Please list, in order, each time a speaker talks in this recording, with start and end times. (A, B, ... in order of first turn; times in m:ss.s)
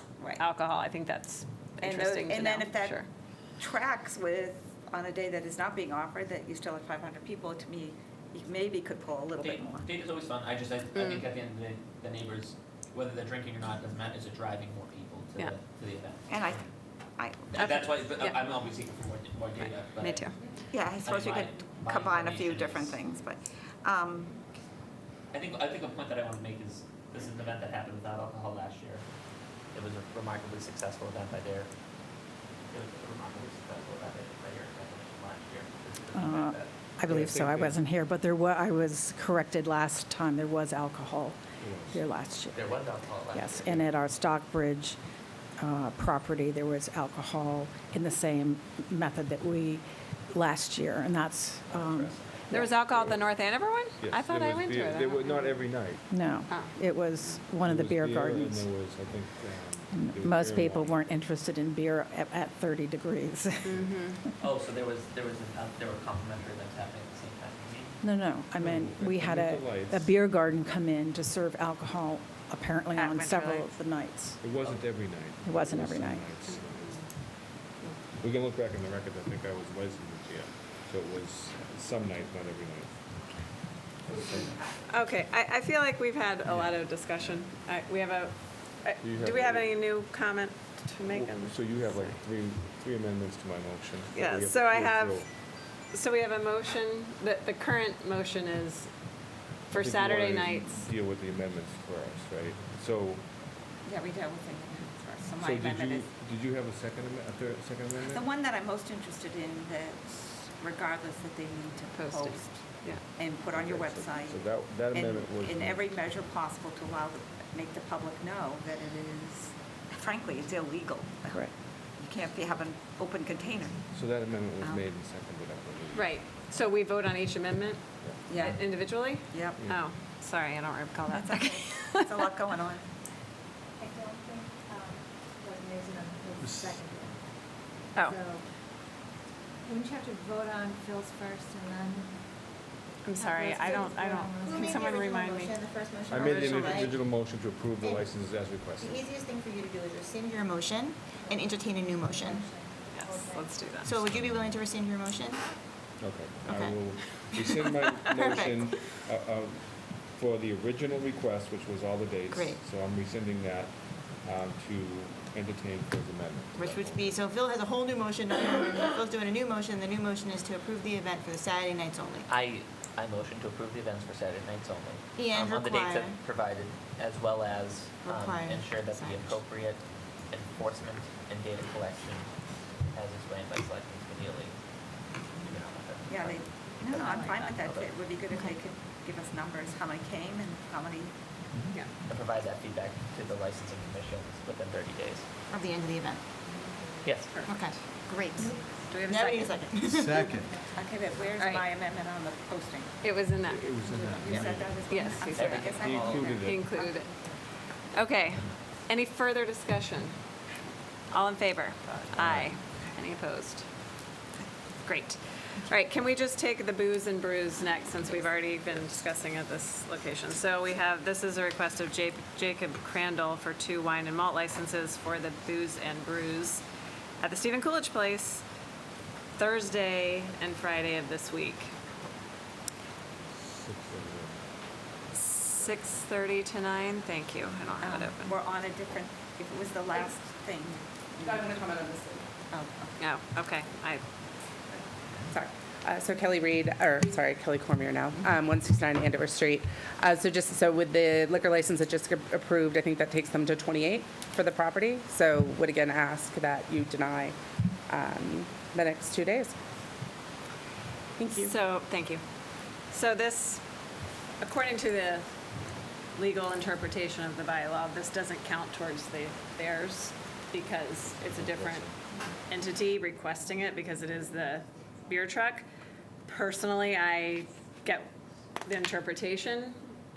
0:00.4-0:03.1 A
0:01.8-0:03.0 B
0:03.6-0:09.9 B
0:09.4-0:16.6 C
0:11.0-0:11.2 A
0:16.3-0:16.6 B
0:17.2-0:18.1 B
0:17.5-0:20.3 C
0:20.0-0:20.4 A
0:20.7-0:24.4 B
0:21.0-0:23.0 C
0:25.3-0:29.0 C
0:29.7-0:31.7 C
0:32.7-0:36.7 C
0:36.1-0:41.4 D
0:37.1-0:37.8 E
0:41.6-0:42.0 E
0:41.9-0:45.0 D
0:42.5-0:43.8 C
0:45.6-0:52.7 D
0:51.8-0:52.6 C
0:52.5-0:55.5 A
0:52.9-0:53.3 E
0:54.0-0:56.1 E
0:56.1-0:58.7 D
0:57.2-1:01.2 E
0:59.9-1:03.9 D
1:03.7-1:04.2 A
1:04.4-1:08.0 C
1:08.0-1:14.4 D
1:08.6-1:10.1 E
1:13.0-1:13.7 A
1:14.4-1:17.1 E
1:15.4-1:16.3 D
1:18.2-1:23.4 E
1:24.1-1:24.6 E
1:24.9-1:32.2 A
1:26.5-1:27.4 E
1:29.0-1:29.8 E
1:31.1-1:35.3 E
1:34.1-1:38.9 A
1:39.7-1:40.9 A
1:39.7-1:43.2 E
1:43.8-1:46.1 B
1:45.4-1:48.2 E
1:48.0-1:52.6 B
1:51.9-1:53.0 A
1:53.2-2:03.8 B
1:53.5-1:56.0 E
2:03.9-2:06.2 E
2:05.9-2:12.0 A
2:08.3-2:08.6 B
2:09.1-2:09.6 B
2:09.6-2:09.8 E
2:11.1-2:12.8 B
2:13.8-2:17.2 F
2:17.9-2:18.4 F
2:19.6-2:22.2 F
2:23.0-2:25.5 A
2:23.2-2:24.8 F
2:23.6-2:27.0 G
2:26.1-2:29.1 E
2:26.2-2:26.9 A
2:27.8-2:28.1 G
2:28.8-2:32.5 G
2:32.1-2:33.7 F
2:32.9-2:33.9 A
2:33.8-2:35.4 G
2:34.0-2:34.5 E
2:36.0-2:47.2 E
2:36.4-2:36.8 G
2:38.1-2:38.7 G
2:42.3-2:42.6 G
2:46.6-2:52.3 G
2:52.3-3:02.3 C
2:55.2-2:56.2 G
2:58.0-2:59.4 G
3:02.9-3:04.6 C
3:05.4-3:07.9 C
3:06.1-3:11.1 B
3:07.0-3:07.6 A
3:12.1-3:15.3 C
3:15.5-3:16.2 G
3:17.0-3:17.3 C
3:17.5-3:20.5 G
3:18.4-3:18.8 F
3:18.7-3:19.5 B
3:20.0-3:20.7 F
3:20.7-3:23.0 B
3:21.4-3:21.7 A
3:23.0-3:24.2 A
3:23.5-3:24.9 E
3:24.2-3:26.5 B
3:24.2-3:24.6 G
3:24.8-3:27.1 A
3:25.4-3:26.3 C
3:25.7-3:26.7 E
3:27.9-3:30.2 A
3:31.1-3:33.7 A
3:32.1-3:32.5 E
3:34.8-3:46.6 A
3:47.2-3:48.4 A
3:49.4-3:51.7 A
3:53.3-3:54.4 E
3:55.1-3:58.4 A
3:57.8-4:01.7 B
4:01.4-4:02.2 H
4:02.5-4:03.0 B
4:03.0-4:04.0 A
4:05.3-4:17.4 H
4:17.9-4:19.5 H
4:21.2-4:21.5 H
4:21.3-4:22.2 A
4:22.9-4:23.6 A
4:24.4-4:25.3 A
4:26.1-4:31.9 A
4:31.2-4:31.9 E
4:32.5-4:35.6 A
4:36.3-4:38.1 A
4:38.6-4:39.8 A